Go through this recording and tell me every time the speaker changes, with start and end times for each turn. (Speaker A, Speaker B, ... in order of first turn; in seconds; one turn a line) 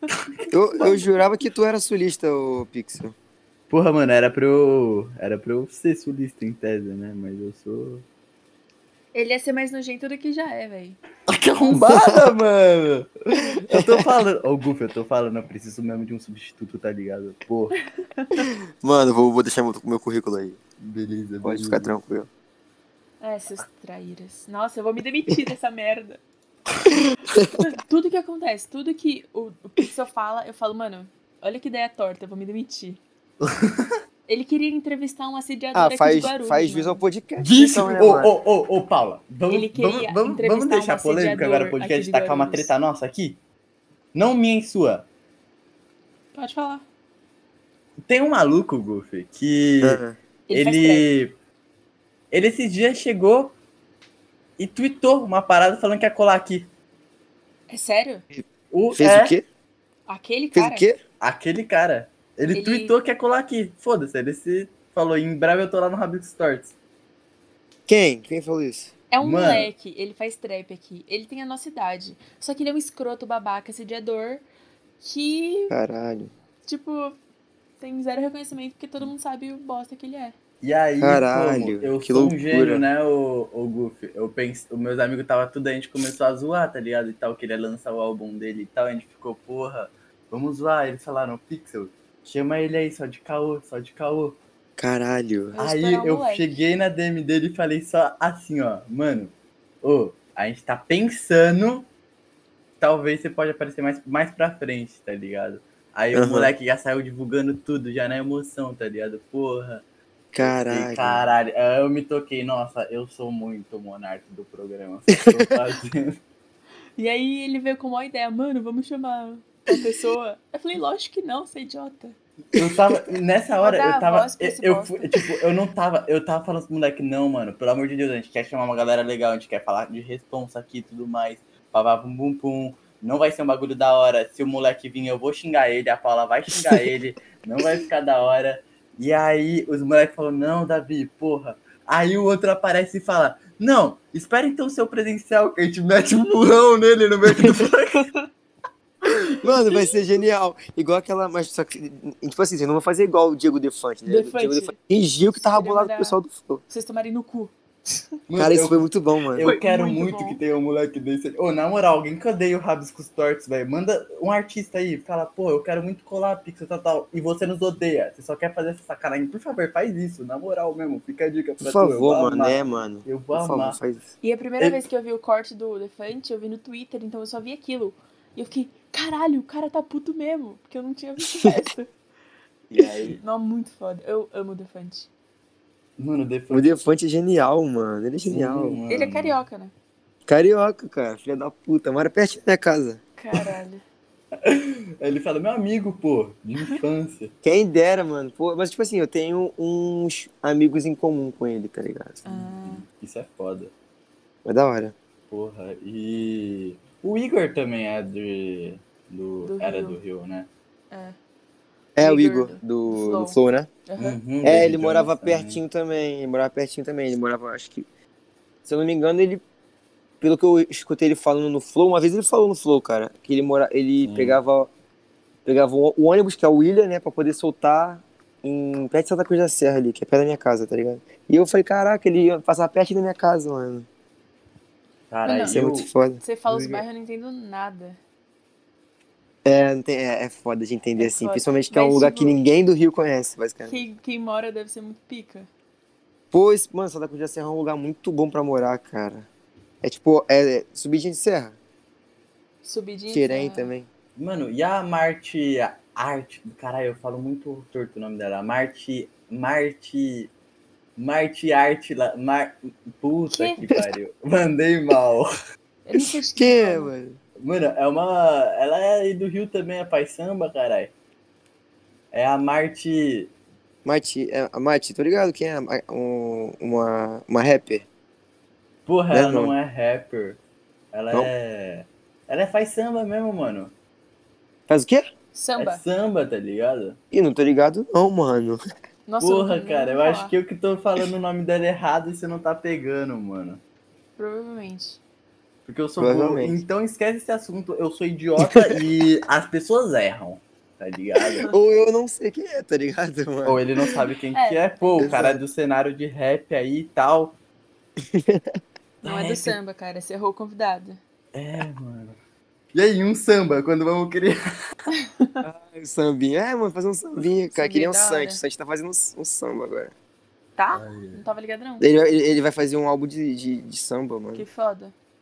Speaker A: 0.5-3.1
Speaker B: 0.7-1.1
Speaker C: 3.7-8.0
Speaker B: 9.1-11.0
Speaker C: 11.3-17.7
Speaker A: 11.7-12.2
Speaker A: 13.3-14.1
Speaker B: 18.0-18.5
Speaker A: 18.8-20.6
Speaker C: 20.8-21.9
Speaker A: 21.4-22.3
Speaker B: 23.2-26.2
Speaker A: 27.3-27.7
Speaker B: 27.6-33.0
Speaker C: 33.4-33.9
Speaker B: 34.3-37.0
Speaker A: 35.7-38.3
Speaker C: 37.4-43.4
Speaker B: 39.5-42.7
Speaker C: 44.1-45.1
Speaker B: 46.3-46.8
Speaker C: 48.0-50.0
Speaker A: 49.8-50.1
Speaker B: 50.5-51.1
Speaker C: 50.5-51.3
Speaker C: 52.3-53.5
Speaker C: 54.6-56.7
Speaker B: 57.7-58.2
Speaker A: 58.3-59.4
Speaker C: 58.7-59.4
Speaker B: 60.1-60.9
Speaker A: 60.5-61.0
Speaker C: 61.2-66.7
Speaker B: 62.5-62.9
Speaker A: 67.9-68.9
Speaker B: 69.1-74.4
Speaker C: 69.2-69.7
Speaker B: 75.0-75.7
Speaker A: 75.7-76.3
Speaker B: 76.7-77.2
Speaker B: 77.8-80.3
Speaker C: 80.6-94.4
Speaker A: 81.0-82.8
Speaker A: 94.8-95.6
Speaker B: 95.5-96.5
Speaker C: 95.5-101.9
Speaker C: 102.8-109.8
Speaker A: 106.1-106.5
Speaker A: 110.3-111.2
Speaker C: 110.4-116.2
Speaker A: 115.1-115.5
Speaker B: 117.0-122.2
Speaker A: 122.5-123.0
Speaker C: 122.5-148.1
Speaker B: 123.6-125.1
Speaker B: 148.0-148.3
Speaker A: 149.4-156.6
Speaker B: 149.5-149.9
Speaker B: 154.0-154.7
Speaker B: 155.3-156.2
Speaker B: 156.7-158.1
Speaker C: 158.3-173.8
Speaker A: 158.3-159.5
Speaker B: 159.4-160.4
Speaker A: 171.6-174.1
Speaker B: 174.2-181.9
Speaker C: 174.6-174.8
Speaker A: 181.2-181.6
Speaker A: 182.7-183.2
Speaker B: 182.8-185.1
Speaker C: 186.0-186.7
Speaker A: 186.5-188.8
Speaker C: 188.2-189.4
Speaker B: 188.9-189.7
Speaker A: 190.3-193.0
Speaker B: 193.2-193.8
Speaker C: 194.4-197.3
Speaker A: 197.4-202.2
Speaker B: 202.2-202.8
Speaker C: 202.3-203.7
Speaker A: 204.4-204.9
Speaker C: 205.3-210.5
Speaker B: 209.4-210.0
Speaker B: 210.9-211.2
Speaker A: 212.0-213.7
Speaker B: 212.0-214.2
Speaker C: 214.0-215.6
Speaker A: 214.4-217.8
Speaker A: 218.7-219.4
Speaker A: 220.2-224.7
Speaker C: 224.0-224.4
Speaker A: 225.4-233.8
Speaker C: 235.1-235.9
Speaker B: 235.2-235.6
Speaker A: 235.4-236.2
Speaker B: 236.2-238.0
Speaker C: 236.5-236.8
Speaker A: 239.4-243.8
Speaker B: 241.0-242.4
Speaker B: 243.7-245.5
Speaker A: 246.3-249.2
Speaker A: 249.8-251.5
Speaker B: 252.6-253.7
Speaker A: 253.1-253.8
Speaker C: 254.2-260.3
Speaker C: 261.0-265.3
Speaker B: 263.3-263.6
Speaker B: 265.9-266.9
Speaker A: 265.9-267.2
Speaker C: 267.4-270.9
Speaker C: 272.1-273.3
Speaker A: 273.8-277.8
Speaker C: 278.9-280.4
Speaker A: 279.1-279.5
Speaker C: 280.9-283.7
Speaker A: 284.7-285.1
Speaker B: 285.3-285.8
Speaker C: 285.6-287.0
Speaker A: 287.1-288.6
Speaker B: 289.1-290.3
Speaker C: 289.2-293.6
Speaker B: 294.2-295.0
Speaker C: 295.6-301.5
Speaker A: 296.0-296.6
Speaker A: 298.4-298.8
Speaker A: 301.4-303.9
Speaker C: 303.4-307.4
Speaker B: 304.3-305.2
Speaker A: 305.0-305.4
Speaker A: 308.0-308.6
Speaker C: 309.0-309.5
Speaker B: 309.0-311.0
Speaker C: 311.3-312.2
Speaker C: 312.7-314.4
Speaker B: 314.9-315.4
Speaker A: 315.4-319.9
Speaker B: 317.5-318.4
Speaker B: 320.6-321.9
Speaker C: 320.7-321.2
Speaker A: 321.8-324.4
Speaker B: 324.3-324.9